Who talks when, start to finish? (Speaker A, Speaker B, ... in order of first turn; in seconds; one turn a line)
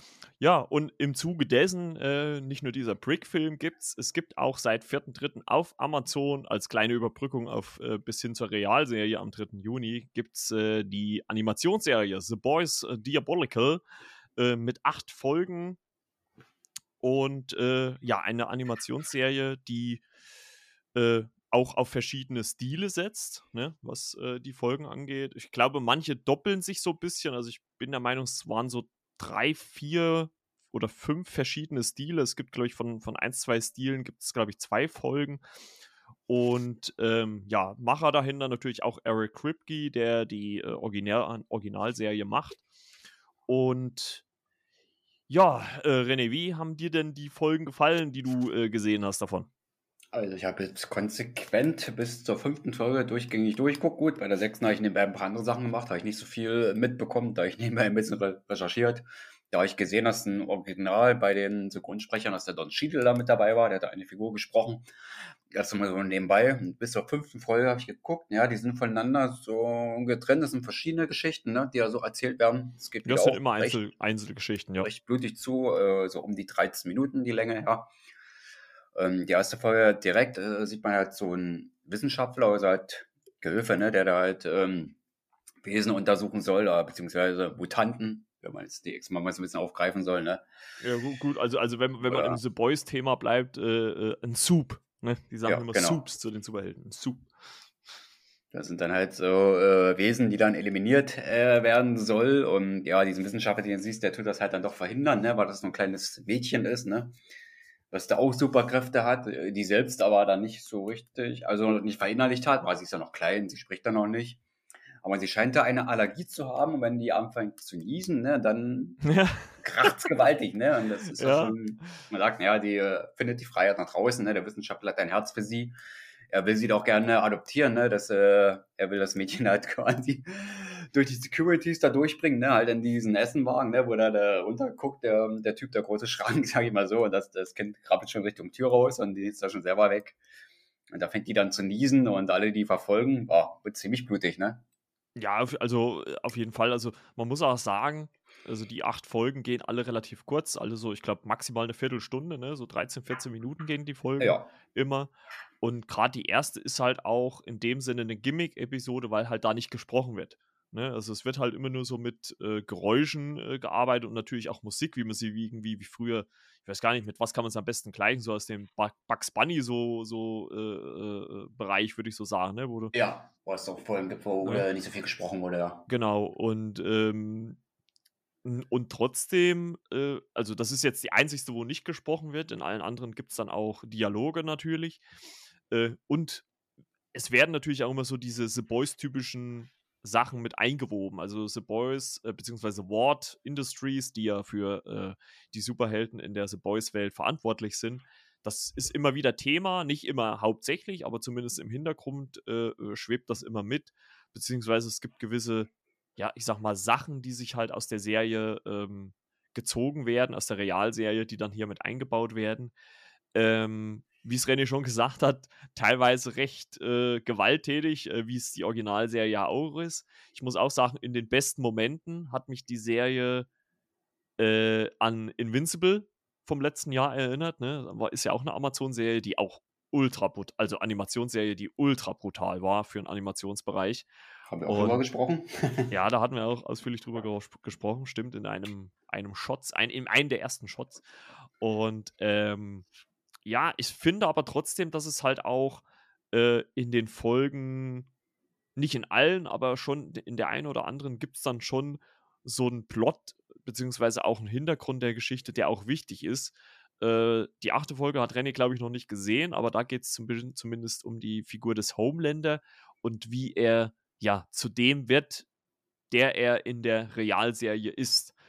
Speaker A: 0.4-13.8
Speaker A: 14.4-15.8
Speaker A: 17.0-20.0
Speaker A: 20.9-35.4
Speaker A: 36.3-42.6
Speaker A: 43.5-44.2
Speaker A: 45.3-49.5
Speaker B: 50.1-64.8
Speaker B: 65.5-73.8
Speaker A: 73.0-74.9
Speaker B: 74.8-77.9
Speaker B: 78.9-85.0
Speaker B: 85.6-90.4
Speaker A: 90.8-97.3
Speaker B: 92.1-92.4
Speaker B: 95.5-96.0
Speaker B: 98.5-107.2
Speaker B: 107.9-114.4
Speaker B: 115.0-119.0
Speaker A: 119.0-119.9
Speaker B: 119.6-125.7
Speaker A: 121.2-121.5
Speaker B: 126.3-140.2
Speaker B: 140.9-144.6
Speaker A: 145.2-172.9
Speaker B: 154.2-154.5
Speaker B: 172.9-175.8
Speaker A: 175.9-177.6
Speaker A: 178.4-185.0
Speaker A: 185.7-186.4
Speaker A: 187.1-212.7
Speaker A: 213.3-223.5
Speaker A: 224.4-234.1
Speaker B: 234.5-235.9
Speaker A: 234.7-235.0
Speaker A: 235.9-241.0
Speaker A: 241.6-242.8
Speaker A: 243.4-248.1
Speaker A: 248.8-265.5
Speaker A: 266.1-268.3